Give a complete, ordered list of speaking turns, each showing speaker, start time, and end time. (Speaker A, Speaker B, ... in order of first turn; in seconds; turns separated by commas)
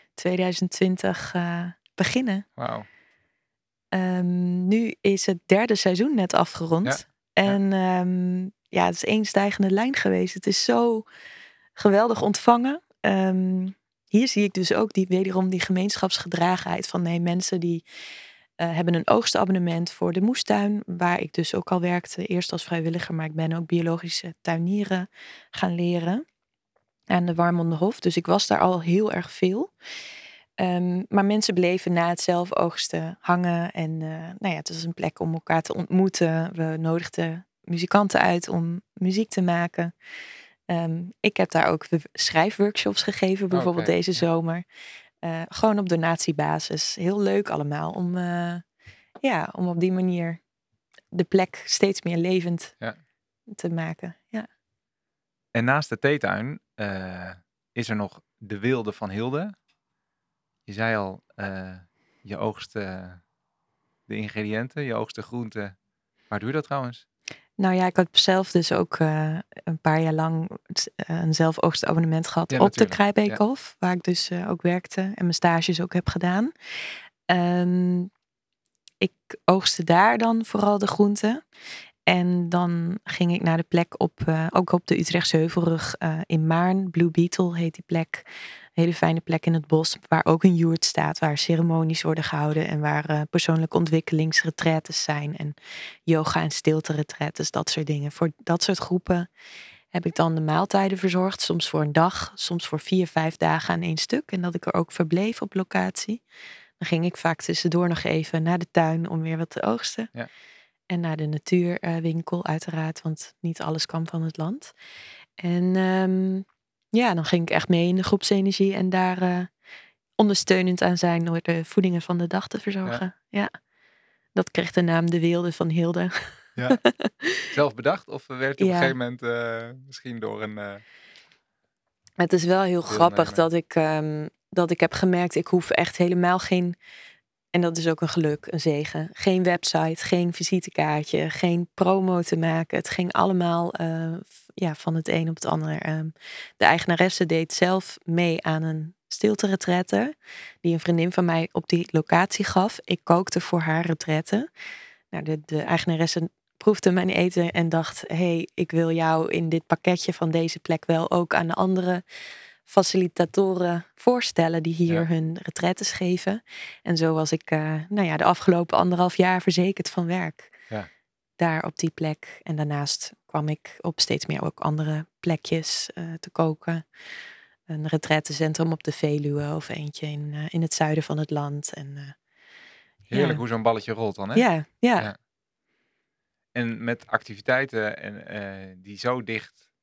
Speaker A: 0.2-2.5, Speaker B: 2.6-2.9, Speaker A: 3.9-11.1, Speaker B: 6.8-7.6, Speaker A: 11.8-17.8, Speaker A: 18.6-26.2, Speaker A: 27.1-29.7, Speaker A: 30.6-39.9, Speaker A: 40.7-44.6, Speaker B: 43.5-44.2, Speaker A: 45.2-48.6, Speaker A: 49.2-50.4, Speaker A: 51.1-52.8, Speaker A: 53.5-54.5, Speaker B: 55.5-59.5, Speaker B: 60.7-63.2, Speaker B: 64.1-65.8, Speaker B: 66.3-67.0, Speaker A: 67.6-76.5, Speaker B: 72.5-73.4, Speaker A: 77.3-78.1, Speaker A: 79.0-81.4, Speaker A: 82.1-88.2, Speaker A: 88.8-95.6, Speaker A: 96.1-99.3, Speaker A: 99.9-106.2, Speaker A: 106.8-110.1, Speaker A: 110.9-114.7, Speaker A: 115.4-119.5, Speaker A: 120.2-123.5, Speaker A: 124.3-127.5, Speaker B: 127.5-130.8, Speaker A: 128.6-128.9, Speaker A: 132.2-136.8, Speaker B: 132.9-133.5, Speaker A: 137.5-150.1, Speaker A: 150.6-154.5, Speaker A: 155.1-162.0, Speaker A: 162.7-170.6, Speaker A: 171.4-176.9, Speaker A: 177.7-182.2, Speaker B: 183.1-184.5, Speaker A: 183.1-183.4, Speaker A: 184.3-185.1, Speaker B: 186.5-189.6